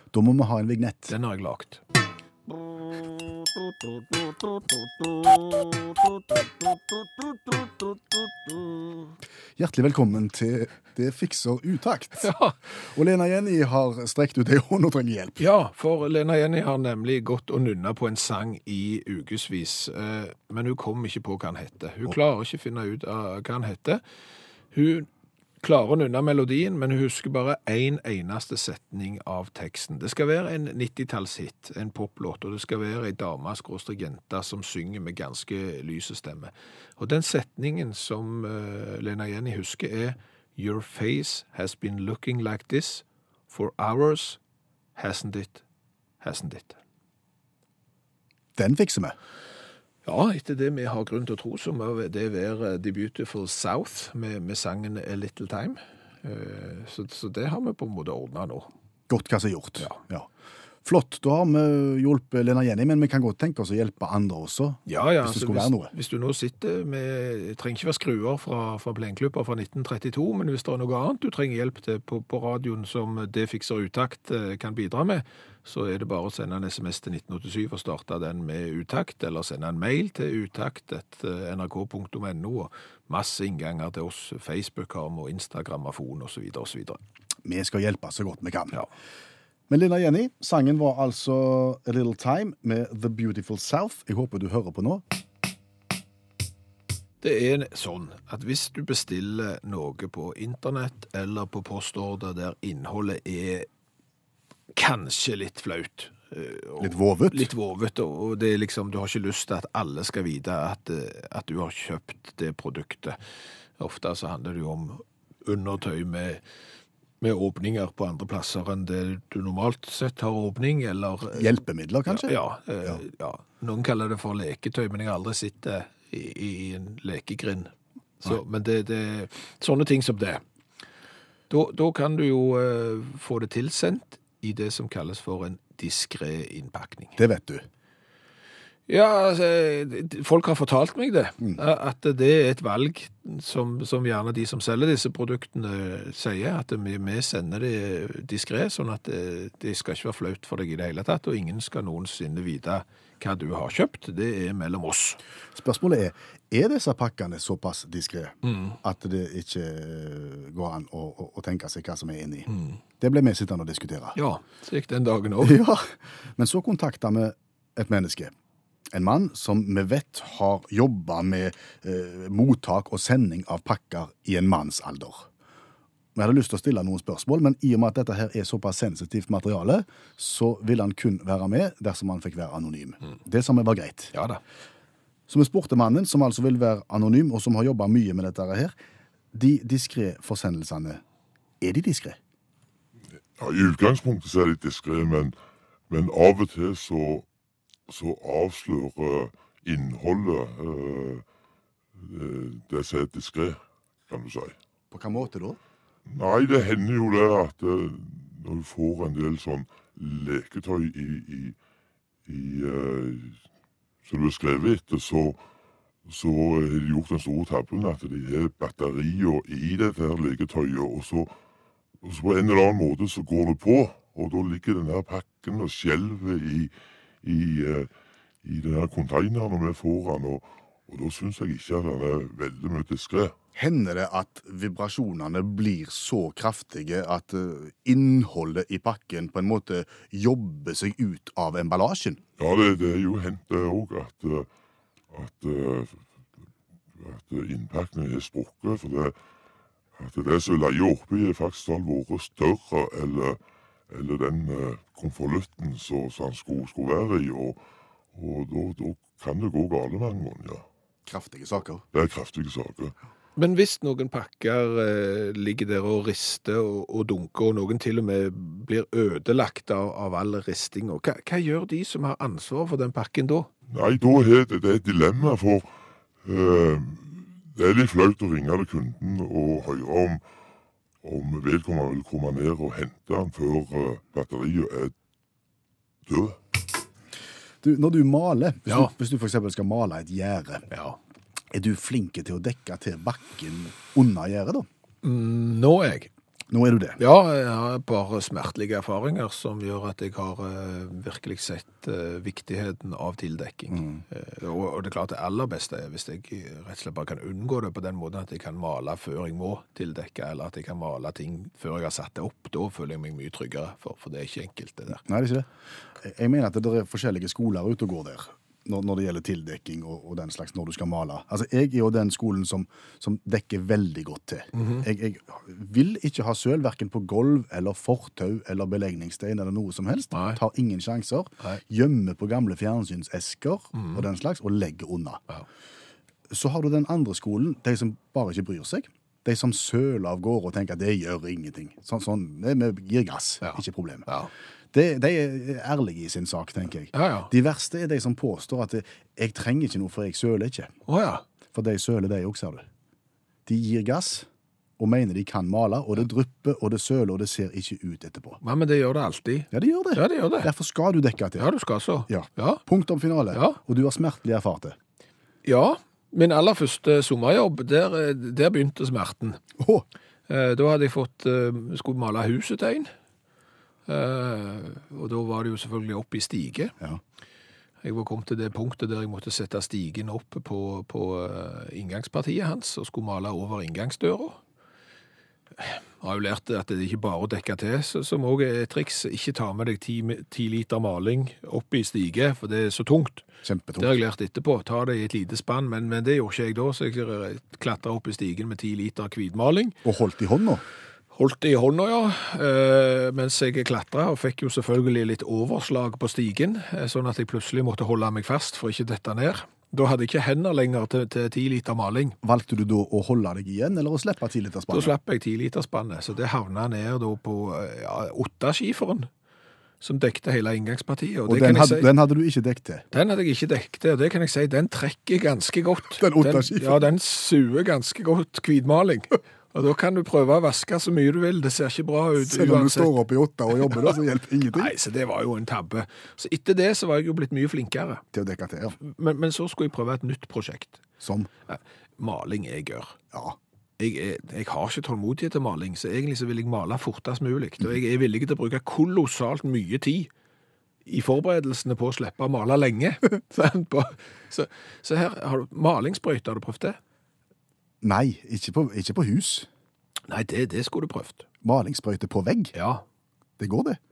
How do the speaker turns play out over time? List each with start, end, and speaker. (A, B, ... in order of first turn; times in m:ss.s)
0:00.1-0:01.1 A
0:01.1-0:01.8 B
0:02.9-0:09.1 B
0:09.6-0:15.4 A
0:12.2-0:12.5 B
0:15.4-0:24.0 B
0:24.7-0:25.1 B
0:25.6-0:44.4 B
0:45.0-0:45.6 B
0:46.2-0:46.8 B
0:48.6-0:49.2 A
0:50.0-0:58.7 B
0:59.1-1:00.3 A
1:00.8-1:05.9 A
1:04.9-1:27.0 B
1:27.4-1:28.8 A
1:29.7-1:35.0 A
1:37.2-1:43.7 B
1:44.7-1:53.2 B
1:46.8-1:47.5 A
1:53.8-1:56.4 B
1:57.2-2:10.4 B
2:01.3-2:03.0 A
2:11.5-2:17.2 B
2:17.2-2:17.6 A
2:18.9-2:35.2 B
2:35.5-2:42.5 A
2:38.4-2:38.8 B
2:42.5-2:42.8 B
2:43.0-2:44.2 A
2:44.1-2:45.6 B
2:45.4-2:48.3 A
2:48.9-2:55.2 A
2:56.1-3:04.1 A
3:04.1-3:04.4 B
3:05.3-3:08.7 A
3:09.3-3:11.0 A
3:11.6-3:12.2 A
3:13.4-3:15.3 C
3:15.9-3:17.2 C
3:17.9-3:21.2 C
3:22.0-3:24.6 C
3:24.9-3:25.6 A
3:26.1-3:31.6 C
3:32.2-3:33.4 C
3:34.0-3:35.4 C
3:36.0-3:41.3 C
3:42.0-3:46.7 C
3:47.2-3:47.9 C
3:48.4-3:53.3 C
3:53.6-4:02.2 A
4:02.4-4:04.5 C
4:05.1-4:06.0 C
4:06.9-4:09.1 C
4:10.0-4:13.4 C
4:13.9-4:17.6 C
4:18.1-4:20.6 C
4:21.1-4:21.8 A
4:21.9-4:22.9 C
4:23.4-4:33.5 B
4:33.7-4:35.7 C
4:36.2-4:40.2 C
4:41.0-4:44.9 C
4:46.1-4:46.4 C
4:47.6-4:50.6 A
4:50.7-4:51.0 B
4:51.5-4:54.7 A
4:55.0-4:56.1 B
4:56.5-4:57.0 A
4:57.0-5:15.0 B
5:03.7-5:04.0 A
5:15.0-5:15.5 A
5:16.0-5:35.2 A
5:24.5-5:24.8 B
5:30.1-5:30.4 B
5:33.7-5:34.0 B
5:36.3-5:44.1 A
5:43.4-5:44.3 B
5:44.7-5:50.7 A
5:46.9-5:47.3 B
5:50.9-5:51.2 B
5:51.5-5:52.7 A
5:53.4-5:54.3 A
5:54.8-5:58.4 A
5:58.4-6:00.5 B
5:59.5-6:01.5 A
6:01.4-6:02.6 B
6:02.1-6:04.8 A
6:03.3-6:03.6 B
6:05.4-6:09.4 B
6:09.6-6:09.8 A
6:10.3-6:12.9 B
6:13.8-6:16.7 B
6:17.8-6:24.4 B
6:25.6-6:33.3 B
6:33.4-6:33.9 A
6:33.8-6:39.8 B
6:39.8-6:40.6 A
6:41.1-6:52.2 B
6:52.2-6:54.9 A
6:54.7-6:59.1 B
6:59.8-7:01.9 B
7:01.3-7:02.8 A
7:02.9-7:13.0 B
7:06.0-7:06.8 A
7:12.2-7:14.7 A
7:13.6-7:13.9 B
7:14.5-7:18.0 B
7:18.1-7:18.8 A
7:18.8-7:20.8 B
7:21.0-7:21.3 A
7:21.5-7:23.0 B
7:23.1-7:23.4 A
7:23.8-7:30.1 B
7:30.8-7:36.8 B
7:37.8-7:39.5 A
7:40.1-7:41.2 B
7:41.4-7:42.5 A
7:42.5-7:42.8 B
7:43.4-7:43.8 A